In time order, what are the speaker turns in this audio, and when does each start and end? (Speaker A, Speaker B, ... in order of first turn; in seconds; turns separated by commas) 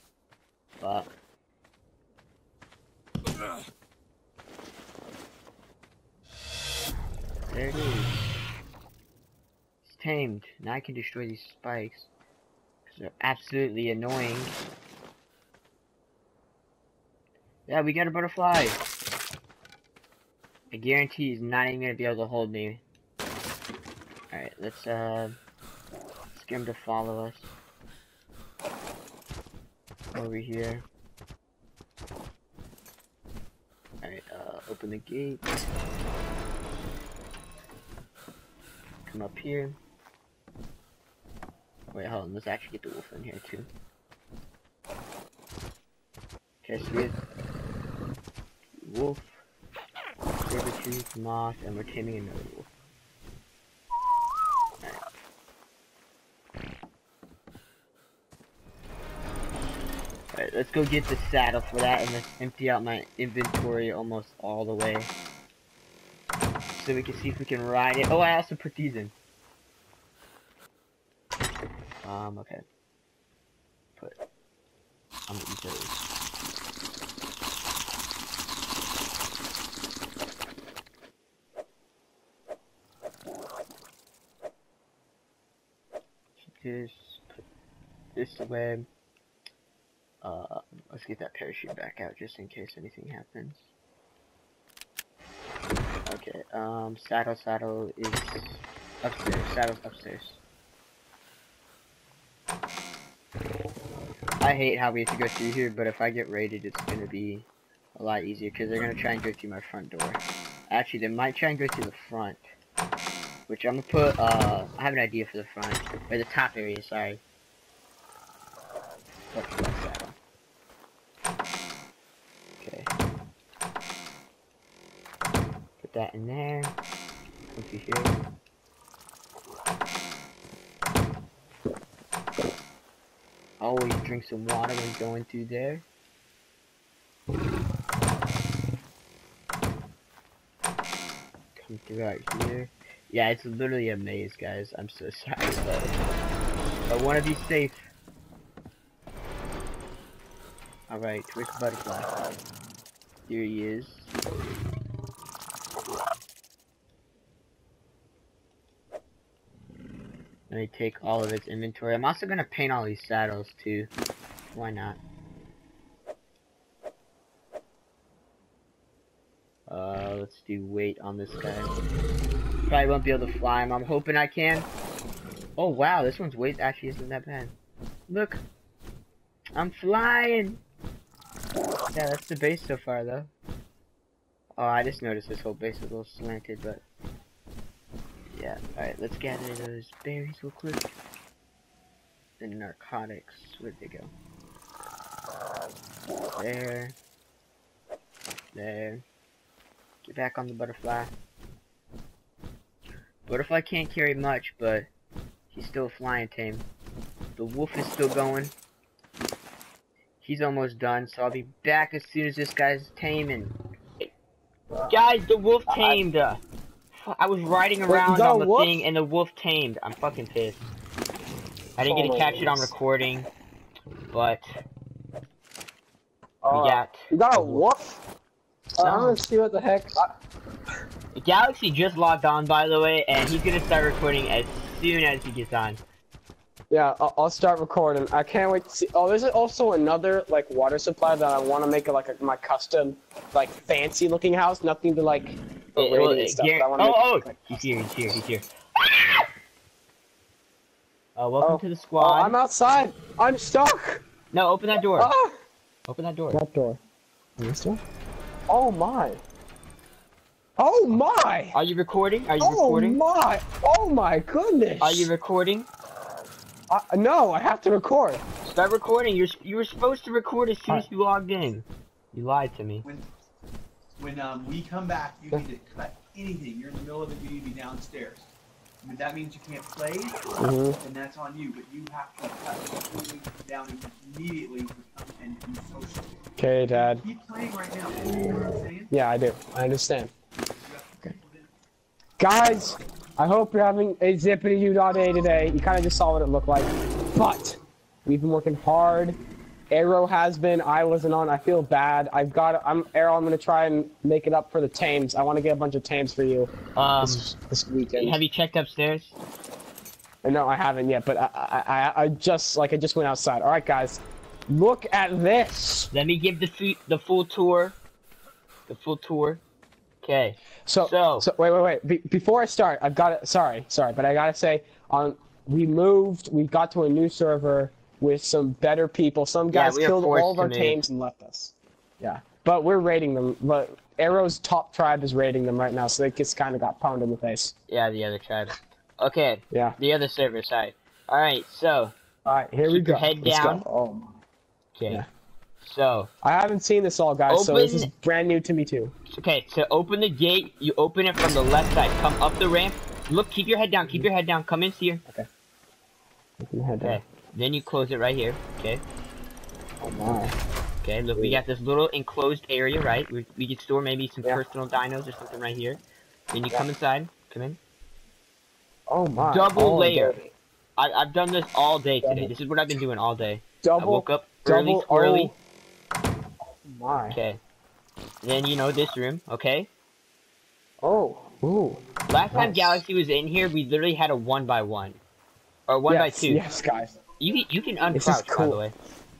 Speaker A: 0.8-1.1, Speaker A: 7.5-8.4, Speaker A: 9.8-12.1, Speaker A: 12.9-14.5, Speaker A: 17.7-18.8, Speaker A: 20.7-22.8, Speaker A: 24.3-25.3, Speaker A: 26.3-27.5, Speaker A: 30.1-30.9, Speaker A: 34.0-35.5, Speaker A: 39.1-39.8, Speaker A: 41.9-43.7, Speaker A: 46.6-47.2, Speaker A: 48.8-49.4, Speaker A: 50.4-52.7, Speaker A: 60.3-65.1, Speaker A: 66.7-69.1, Speaker A: 72.0-72.6, Speaker A: 75.3-76.0, Speaker A: 86.4-87.4, Speaker A: 88.1-88.9, Speaker A: 90.2-93.7, Speaker A: 96.0-100.4, Speaker A: 104.4-112.4, Speaker A: 113.5-117.2, Speaker A: 119.3-120.2, Speaker A: 122.6-122.9, Speaker A: 125.8-126.7, Speaker A: 127.5-128.1, Speaker A: 133.6-135.8, Speaker A: 141.6-146.0, Speaker A: 146.9-147.8, Speaker A: 150.9-152.2, Speaker A: 153.3-154.1, Speaker A: 160.5-163.9, Speaker A: 164.5-165.0, Speaker A: 169.7-171.7, Speaker A: 172.7-174.7, Speaker A: 175.6-177.5, Speaker A: 178.1-178.4, Speaker A: 179.5-180.6, Speaker A: 181.9-183.3, Speaker A: 184.6-186.8, Speaker A: 188.3-190.9, Speaker A: 192.4-194.1, Speaker A: 196.3-196.9, Speaker A: 198.5-199.0, Speaker A: 200.0-201.1, Speaker A: 203.3-204.9, Speaker A: 205.5-206.6, Speaker A: 207.4-208.5, Speaker A: 210.2-213.6, Speaker A: 214.9-216.4, Speaker B: 215.7-216.0, Speaker A: 216.9-220.7, Speaker B: 217.9-218.8, Speaker A: 221.8-223.3, Speaker B: 221.8-222.7, Speaker A: 224.1-224.6, Speaker B: 226.4-228.0, Speaker A: 226.5-227.6, Speaker B: 228.8-230.1, Speaker A: 228.8-229.2, Speaker A: 231.1-235.8, Speaker B: 236.7-247.7, Speaker A: 245.8-249.3, Speaker A: 251.2-252.3, Speaker B: 251.4-254.0, Speaker A: 254.3-255.1, Speaker B: 254.9-255.3, Speaker A: 255.9-256.4, Speaker B: 256.3-256.8, Speaker B: 257.4-257.8, Speaker B: 258.5-259.2, Speaker B: 260.6-261.6, Speaker A: 261.5-263.0, Speaker B: 262.4-265.1, Speaker A: 264.8-265.7, Speaker B: 266.7-268.2, Speaker A: 268.4-272.9, Speaker C: 274.0-278.3, Speaker C: 278.8-286.1, Speaker B: 280.4-280.8, Speaker B: 286.4-287.0, Speaker C: 286.7-288.9, Speaker B: 288.9-290.1, Speaker C: 290.5-291.5, Speaker B: 292.2-299.2, Speaker B: 299.7-308.2, Speaker A: 306.7-307.2, Speaker A: 307.9-309.1, Speaker B: 310.2-315.9, Speaker A: 315.9-317.8, Speaker A: 318.7-319.4, Speaker A: 320.0-321.3, Speaker B: 320.6-337.5, Speaker A: 329.5-330.8, Speaker A: 337.7-341.9, Speaker B: 342.2-344.1, Speaker A: 342.6-343.6, Speaker A: 344.7-345.0, Speaker A: 345.6-346.1, Speaker B: 346.2-348.9, Speaker A: 347.3-347.9, Speaker A: 349.1-355.0, Speaker B: 356.4-357.0, Speaker A: 356.8-358.8, Speaker B: 359.8-360.4, Speaker A: 360.8-367.6, Speaker B: 368.9-370.3, Speaker A: 369.2-370.2, Speaker A: 370.8-375.3, Speaker B: 372.0-372.3, Speaker B: 373.6-375.4, Speaker B: 376.6-377.2, Speaker A: 377.1-377.4, Speaker A: 378.2-379.7, Speaker B: 380.8-382.8, Speaker A: 382.1-385.0, Speaker A: 385.7-386.4, Speaker B: 385.9-387.0, Speaker A: 387.2-388.7, Speaker B: 387.9-388.6